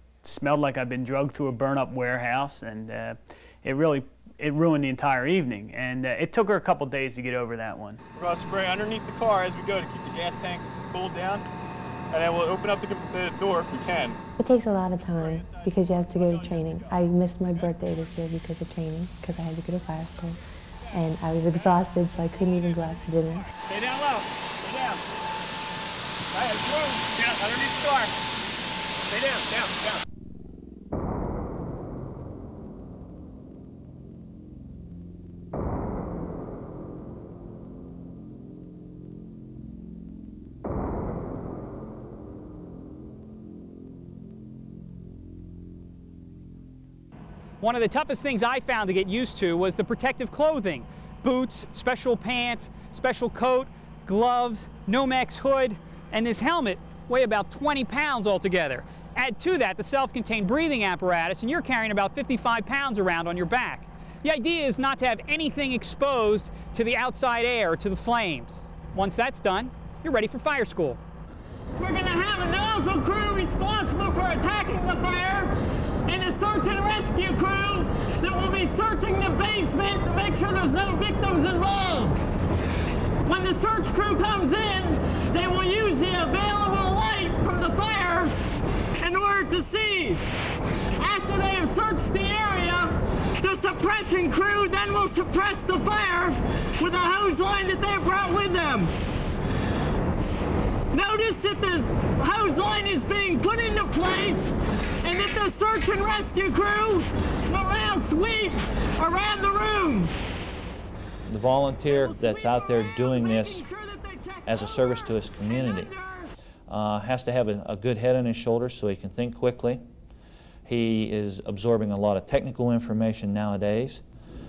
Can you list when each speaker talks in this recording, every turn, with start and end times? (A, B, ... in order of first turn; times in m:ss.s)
0:00.2-0:08.0 A
0:08.2-0:11.5 B
0:12.1-0:14.2 B
0:14.4-0:20.4 C
0:14.9-0:17.0 B
0:20.9-0:23.5 C
0:47.6-1:11.0 D
1:11.8-1:22.2 E
1:23.2-1:28.4 E
1:29.0-1:30.3 E
1:31.0-1:38.9 E
1:40.9-1:44.5 E
1:45.0-1:50.1 E
1:51.3-1:53.7 F
1:51.8-1:56.3 E
1:54.5-1:55.9 F
1:56.7-1:59.8 F
2:00.7-2:04.0 F